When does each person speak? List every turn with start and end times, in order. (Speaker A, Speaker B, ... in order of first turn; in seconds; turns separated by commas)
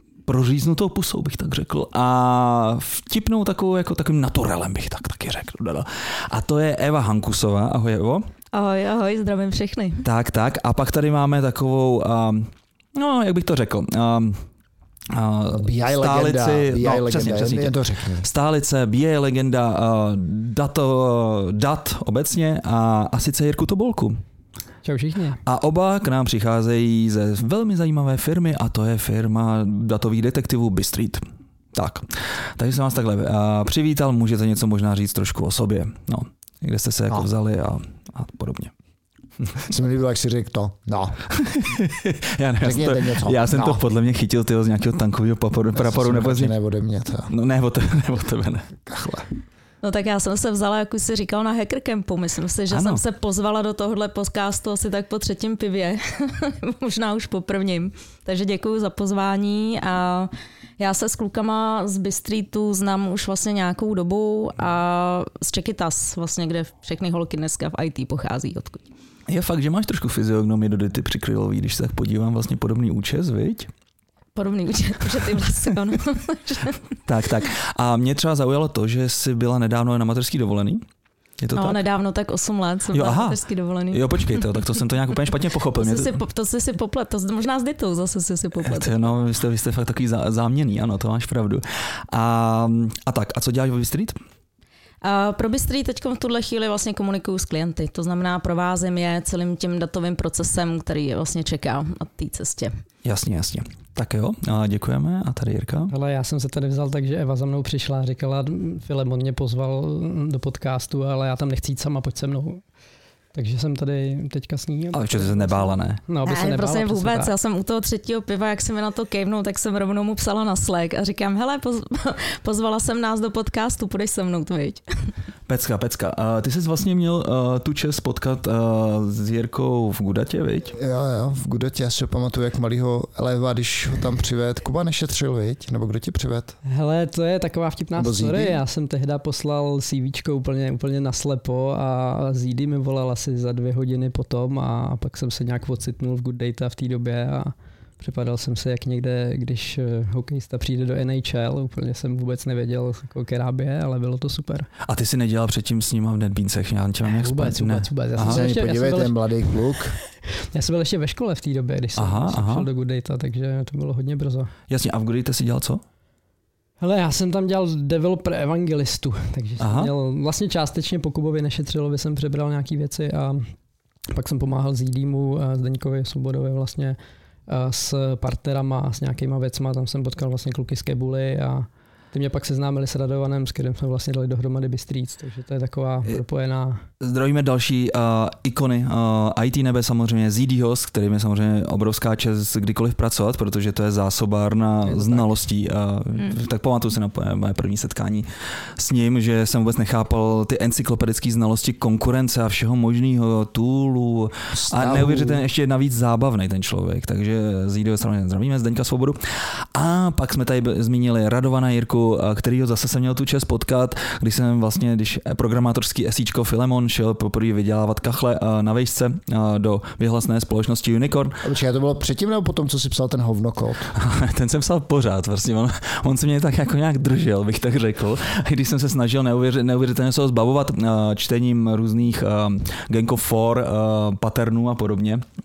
Speaker A: 0.3-8.3, Speaker B: 8.5-10.0, Speaker A: 10.0-14.5, Speaker A: 15.1-24.2, Speaker C: 15.5-18.3, Speaker D: 24.8-25.4, Speaker A: 25.5-38.7, Speaker C: 39.6-41.2, Speaker A: 41.4-46.5, Speaker C: 42.6-43.8, Speaker C: 45.7-47.3, Speaker A: 47.3-48.7, Speaker C: 48.9-49.3, Speaker B: 49.8-68.9, Speaker A: 52.7-53.0, Speaker A: 69.3-73.7, Speaker B: 74.3-76.8, Speaker A: 77.1-80.8, Speaker A: 81.4-81.8, Speaker B: 81.5-84.8, Speaker A: 82.9-83.4, Speaker A: 83.9-86.2, Speaker B: 85.7-89.1, Speaker A: 88.6-94.2, Speaker B: 95.0-102.7, Speaker A: 103.0-105.9, Speaker D: 105.9-112.6, Speaker D: 113.3-117.3, Speaker A: 114.9-116.0, Speaker B: 116.2-125.1, Speaker A: 125.5-130.7, Speaker C: 130.7-136.6, Speaker D: 136.7-154.7, Speaker C: 138.0-138.6, Speaker A: 154.8-158.4, Speaker D: 157.1-159.7, Speaker C: 158.2-160.0, Speaker D: 160.5-164.5, Speaker A: 161.9-162.7, Speaker A: 164.7-165.8, Speaker D: 166.8-173.5, Speaker A: 169.6-169.9, Speaker D: 174.1-177.0, Speaker D: 177.5-186.8, Speaker A: 187.0-209.2, Speaker D: 194.8-195.3, Speaker C: 204.5-205.4, Speaker A: 209.7-221.4, Speaker C: 221.4-223.9, Speaker A: 223.9-235.2